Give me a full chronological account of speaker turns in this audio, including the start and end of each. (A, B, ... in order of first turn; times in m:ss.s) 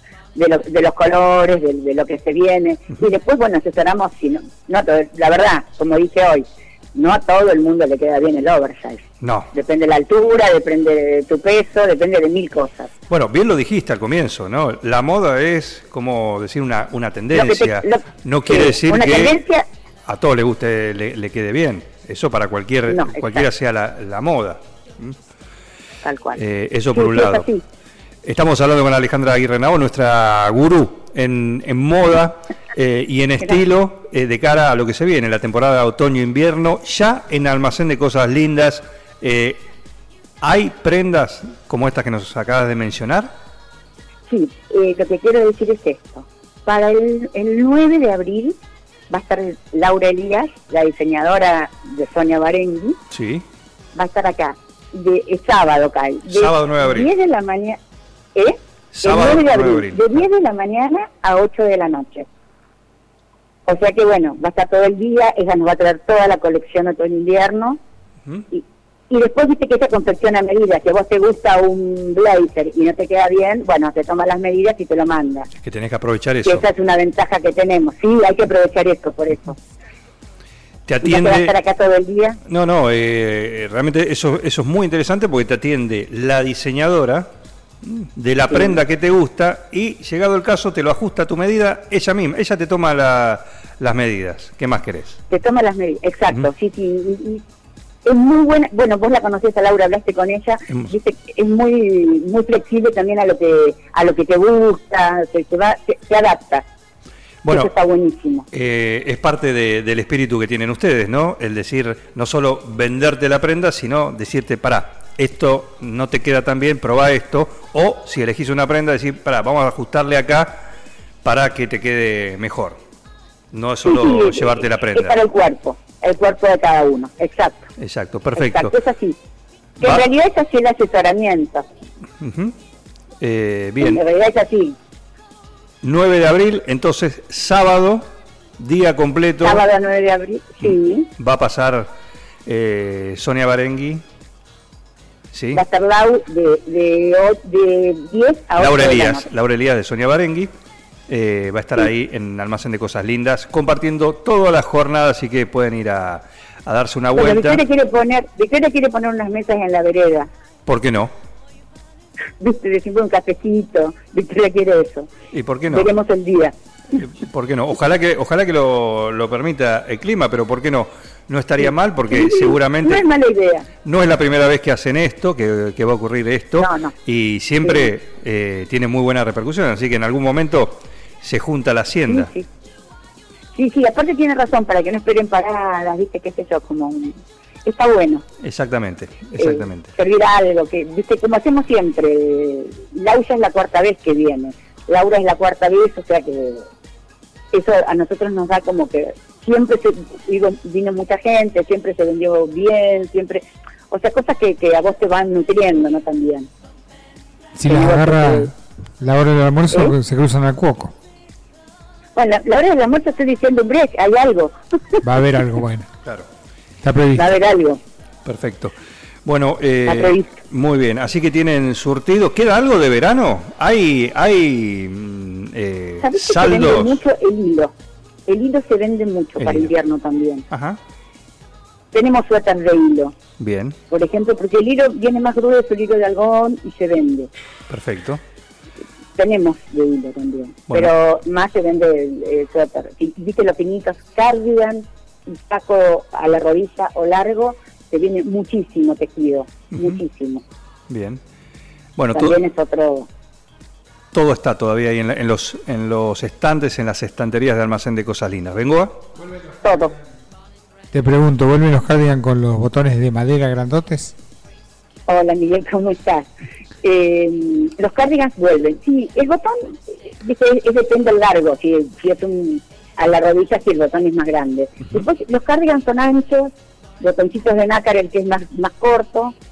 0:00.3-0:12.9 A
0:09.2-0:09.5 B
0:13.1-0:19.4 B
0:17.3-0:19.6 A
0:20.0-0:25.1 B
0:22.9-0:23.5 A
0:26.0-0:26.4 A
0:26.4-0:27.5 B
0:26.9-0:27.6 A
0:28.2-0:39.6 B
0:40.4-0:43.3 B
0:44.3-0:48.6 A
0:49.1-0:53.0 A
0:53.1-0:53.4 B
0:53.9-0:57.8 A
0:56.3-0:57.1 B
0:58.3-1:02.3 A
0:58.9-1:00.2 B
1:03.6-1:07.8 A
1:08.5-1:15.5 A
1:15.6-1:16.6 B
1:16.4-1:19.6 A
1:20.9-1:21.5 B
1:21.0-1:22.4 A
1:22.5-1:27.3 B
1:27.8-1:35.2 B
1:28.5-1:28.8 A
1:35.3-1:37.4 A
1:38.0-1:46.6 A
1:47.4-1:47.7 B
1:47.5-1:48.5 A
1:48.5-2:00.6 B
2:01.2-2:02.8 B
2:03.5-2:05.2 B
2:03.8-2:07.7 A
2:07.8-2:08.7 B
2:08.4-2:09.2 A
2:09.8-2:11.6 A
2:12.2-2:12.5 B
2:13.2-2:14.0 B
2:13.8-2:14.8 A
2:15.8-2:18.1 B
2:18.6-2:19.6 B
2:19.4-2:21.1 A
2:20.6-2:21.9 B
2:22.4-2:24.0 B
2:25.3-2:25.6 B
2:25.5-2:29.3 A
2:28.6-2:30.5 B
2:31.1-2:37.6 B
2:37.1-2:40.3 A
2:40.6-2:41.1 B
2:42.4-2:45.1 A
2:45.3-2:45.9 B
2:45.7-2:46.5 A
2:47.0-2:53.0 B
2:52.1-2:53.7 A
2:53.8-3:02.3 B
2:56.6-2:56.9 A
2:57.6-2:57.9 A
3:02.1-3:02.4 A
3:03.5-3:08.2 A
3:08.4-3:09.9 B
3:09.4-3:16.7 A
3:17.5-3:26.5 A
3:27.5-3:28.4 C
3:27.6-3:28.5 A
3:29.0-3:30.9 C
3:29.7-3:30.0 A
3:32.2-3:35.1 A
3:35.0-3:35.9 C
3:36.8-3:37.3 C
3:37.1-3:37.8 A
3:38.2-3:38.7 B
3:39.2-3:47.0 B
3:39.8-3:40.4 A
3:46.0-3:47.7 A
3:48.3-3:50.4 A
3:49.4-3:49.7 B
3:50.5-3:50.8 B
3:51.9-3:53.1 A
3:53.4-3:53.8 B
3:53.9-3:57.3 A
3:57.7-3:58.2 B
3:59.2-4:10.4 A
4:09.7-4:10.0 B
4:10.9-4:11.2 B
4:12.0-4:12.4 B
4:12.1-4:13.1 A
4:14.1-4:19.1 B
4:19.6-4:20.0 A
4:20.9-4:24.1 C
4:25.1-4:26.3 A
4:26.8-4:39.3 A